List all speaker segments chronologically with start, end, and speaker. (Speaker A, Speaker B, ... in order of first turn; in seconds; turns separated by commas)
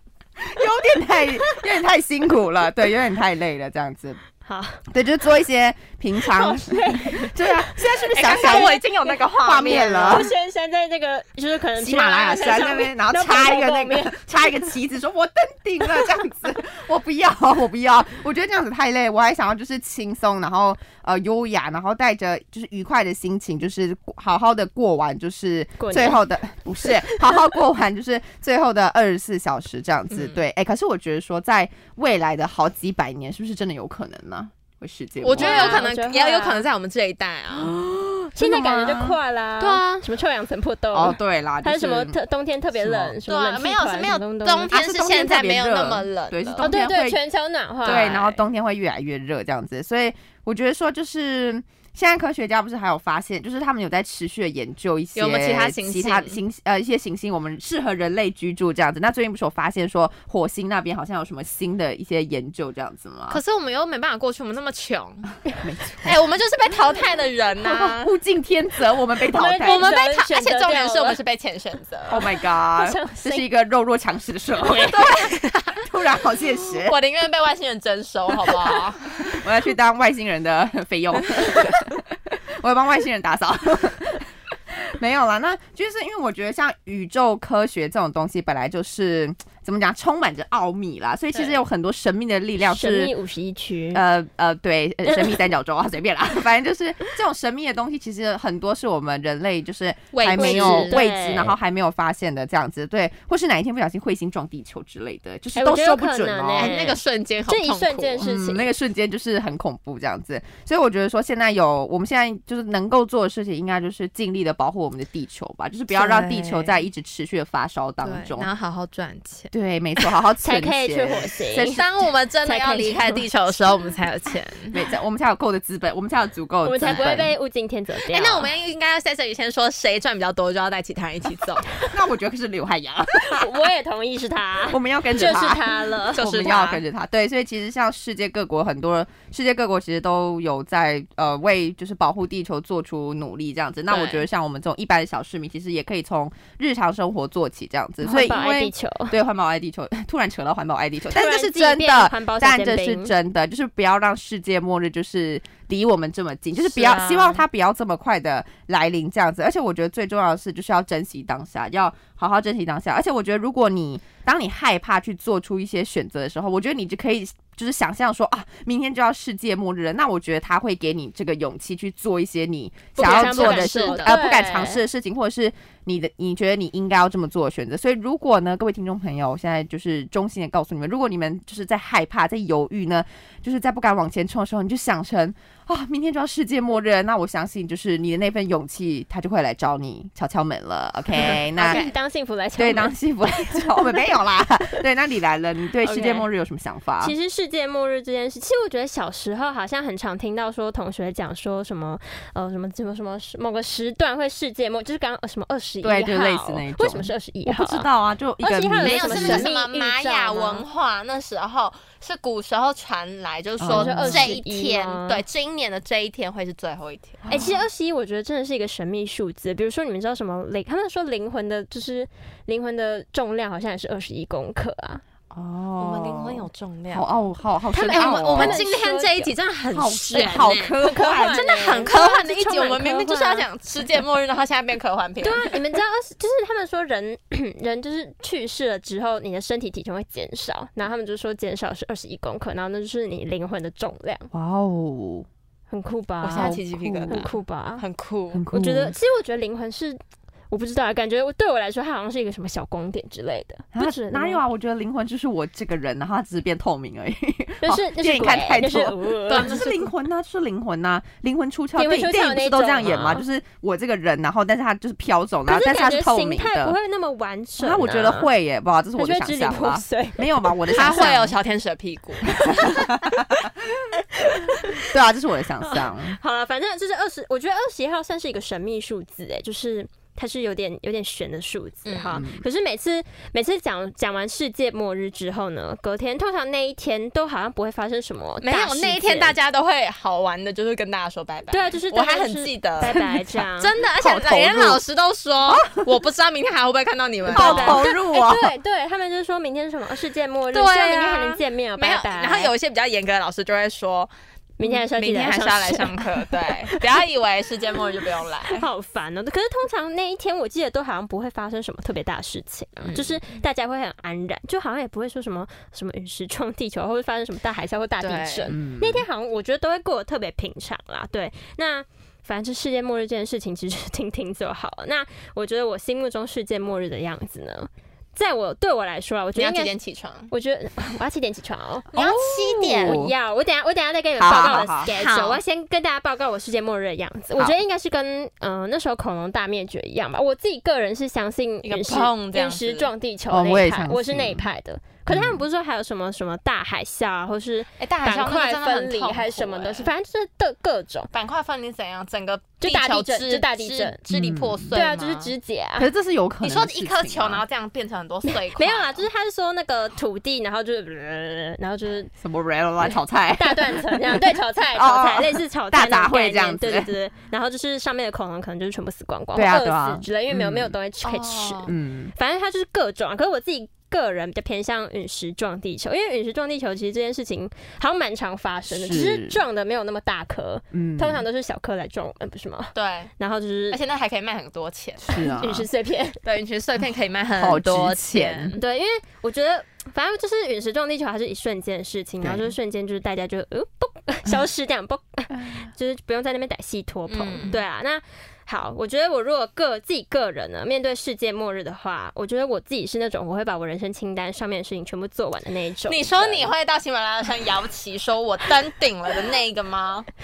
Speaker A: 0.4-4.2, Speaker B: 4.4-4.8, Speaker A: 4.9-10.3, Speaker B: 6.2-14.6, Speaker C: 8.1-10.3, Speaker A: 11.8-35.9, Speaker B: 25.8-26.2, Speaker C: 35.2-37.7, Speaker B: 35.4-36.6, Speaker A: 37.5-39.2, Speaker B: 38.4-44.7, Speaker C: 39.6-40.0, Speaker A: 40.9-42.2, Speaker A: 42.8-43.1, Speaker C: 43.3-46.7, Speaker A: 44.7-47.2, Speaker B: 46.6-48.2, Speaker A: 47.8-63.4, Speaker C: 47.8-48.3, Speaker C: 55.1-56.4, Speaker C: 63.3-65.3, Speaker A: 65.6-66.2, Speaker C: 66.0-68.1, Speaker A: 67.6-69.9, Speaker B: 69.3-71.2, Speaker C: 69.6-72.2, Speaker A: 72.1-77.0, Speaker B: 72.8-73.5, Speaker C: 74.6-75.8, Speaker C: 76.8-79.4, Speaker A: 78.5-93.1, Speaker B: 92.6-94.0, Speaker A: 93.9-106.8, Speaker B: 95.1-95.3, Speaker C: 100.1-101.0, Speaker B: 100.4-101.5, Speaker B: 105.5-108.7, Speaker C: 106.5-108.3, Speaker A: 108.2-118.5, Speaker C: 115.9-116.8, Speaker C: 118.0-120.0, Speaker A: 119.5-121.7, Speaker B: 120.4-121.8, Speaker C: 121.6-124.7, Speaker B: 122.4-123.2, Speaker A: 124.7-127.3, Speaker B: 126.6-128.5, Speaker C: 128.1-131.7, Speaker A: 131.9-133.5, Speaker B: 133.3-136.5, Speaker A: 134.7-191.8, Speaker C: 136.1-136.8, Speaker C: 143.9-144.2, Speaker B: 148.0-149.1, Speaker B: 151.1-153.1, Speaker C: 156.6-157.4, Speaker C: 173.0-174.2, Speaker B: 173.0-174.8, Speaker B: 191.6-194.2, Speaker C: 191.6-191.9, Speaker A: 192.6-197.1, Speaker B: 195.9-196.2, Speaker B: 197.0-207.9, Speaker A: 205.8-209.5, Speaker B: 208.4-210.6, Speaker C: 208.8-217.2, Speaker A: 213.6-214.3, Speaker B: 213.7-215.2, Speaker A: 217.2-217.6, Speaker B: 217.3-225.0, Speaker A: 225.3-228.6, Speaker C: 225.8-227.1, Speaker B: 227.7-229.3, Speaker C: 227.8-235.6, Speaker A: 229.7-231.4, Speaker B: 230.8-233.4, Speaker B: 235.2-244.3, Speaker A: 244.3-245.3, Speaker B: 245.7-246.6, Speaker A: 246.2-247.3, Speaker C: 246.2-248.4, Speaker B: 247.1-247.8, Speaker A: 248.3-248.9, Speaker B: 248.5-250.0, Speaker B: 250.5-254.4, Speaker A: 253.7-266.8, Speaker B: 257.6-259.6, Speaker C: 259.3-259.9, Speaker B: 261.8-263.2, Speaker B: 265.5-268.3, Speaker A: 267.6-271.4, Speaker B: 269.0-271.1, Speaker C: 270.7-272.8, Speaker A: 272.4-273.5, Speaker B: 274.5-274.7, Speaker A: 274.8-276.2, Speaker B: 275.6-289.3, Speaker C: 281.9-282.2, Speaker A: 282.1-282.4, Speaker C: 288.4-293.0, Speaker B: 291.5-293.7, Speaker A: 292.9-293.4, Speaker C: 293.6-297.8, Speaker A: 293.9-294.8, Speaker A: 295.5-295.8, Speaker A: 297.3-298.5, Speaker B: 297.3-302.5, Speaker C: 300.5-304.1, Speaker B: 304.6-306.8, Speaker C: 304.6-308.6, Speaker B: 308.5-329.7, Speaker C: 312.8-313.4, Speaker C: 318.0-318.5, Speaker A: 318.5-319.0, Speaker C: 329.3-330.3, Speaker B: 330.3-332.0, Speaker C: 331.9-333.0, Speaker A: 331.9-333.1, Speaker B: 332.6-351.1, Speaker A: 334.2-334.9, Speaker C: 334.2-335.4, Speaker C: 341.6-342.9, Speaker A: 343.3-344.4, Speaker A: 345.1-345.4, Speaker C: 347.8-349.9, Speaker C: 351.1-355.3, Speaker B: 352.6-354.0, Speaker A: 354.1-354.7, Speaker B: 354.7-355.9, Speaker A: 355.8-357.4, Speaker C: 356.4-359.1, Speaker B: 358.3-362.1, Speaker A: 362.2-366.9, Speaker B: 362.9-383.8, Speaker A: 369.3-370.7, Speaker C: 371.0-371.7, Speaker A: 371.7-372.1, Speaker A: 378.7-379.4, Speaker A: 380.7-381.2, Speaker C: 382.7-383.1, Speaker C: 383.7-385.0, Speaker A: 385.0-385.7, Speaker B: 385.4-386.2, Speaker C: 386.2-388.6, Speaker A: 387.3-388.5, Speaker B: 388.6-406.5, Speaker A: 392.2-392.5, Speaker A: 395.3-395.7, Speaker C: 397.1-397.6, Speaker C: 405.9-410.1